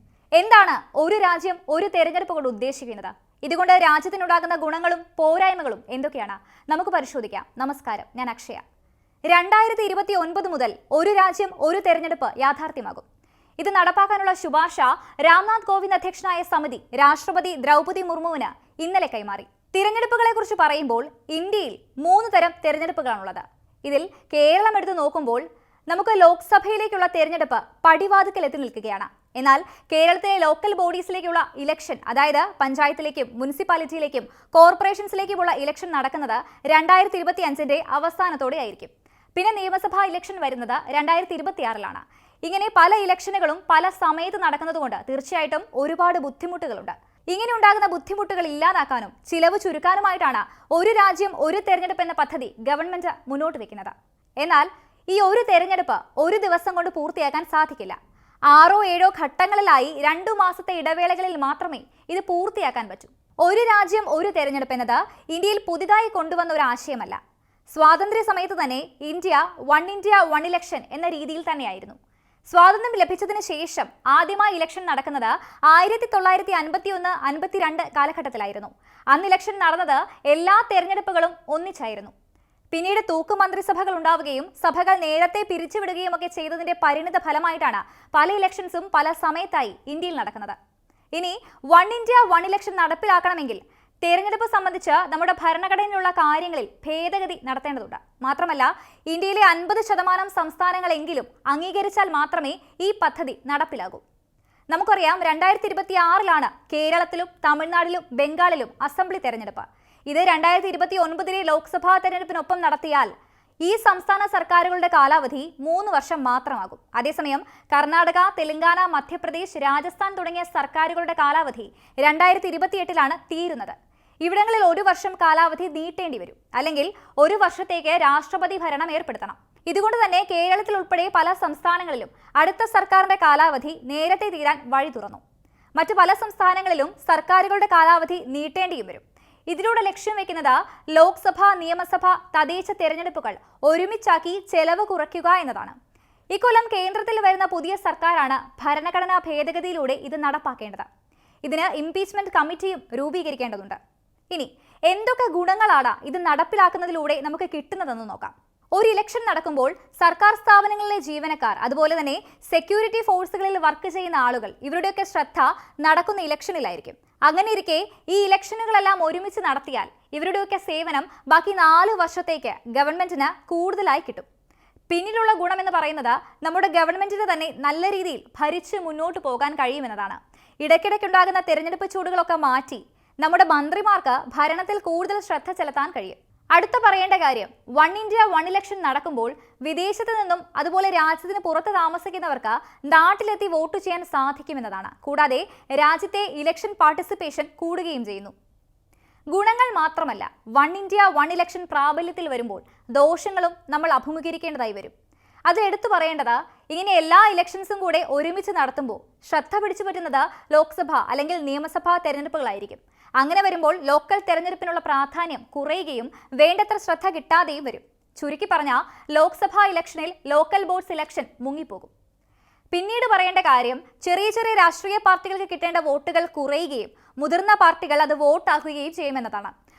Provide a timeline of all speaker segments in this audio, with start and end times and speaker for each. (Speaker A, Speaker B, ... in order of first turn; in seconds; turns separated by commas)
Speaker A: 0.4-8.6, Speaker A: 9.3-13.1, Speaker A: 13.6-58.0, Speaker A: 58.5-72.0, Speaker A: 72.5-82.1, Speaker A: 82.7-90.6, Speaker A: 91.2-104.0, Speaker A: 104.7-113.1, Speaker A: 113.6-135.2, Speaker A: 135.8-145.8, Speaker A: 146.3-150.9, Speaker A: 151.4-153.8, Speaker A: 154.3-174.3, Speaker A: 174.9-198.3, Speaker A: 199.3-204.9, Speaker A: 205.5-221.9, Speaker A: 222.7-229.5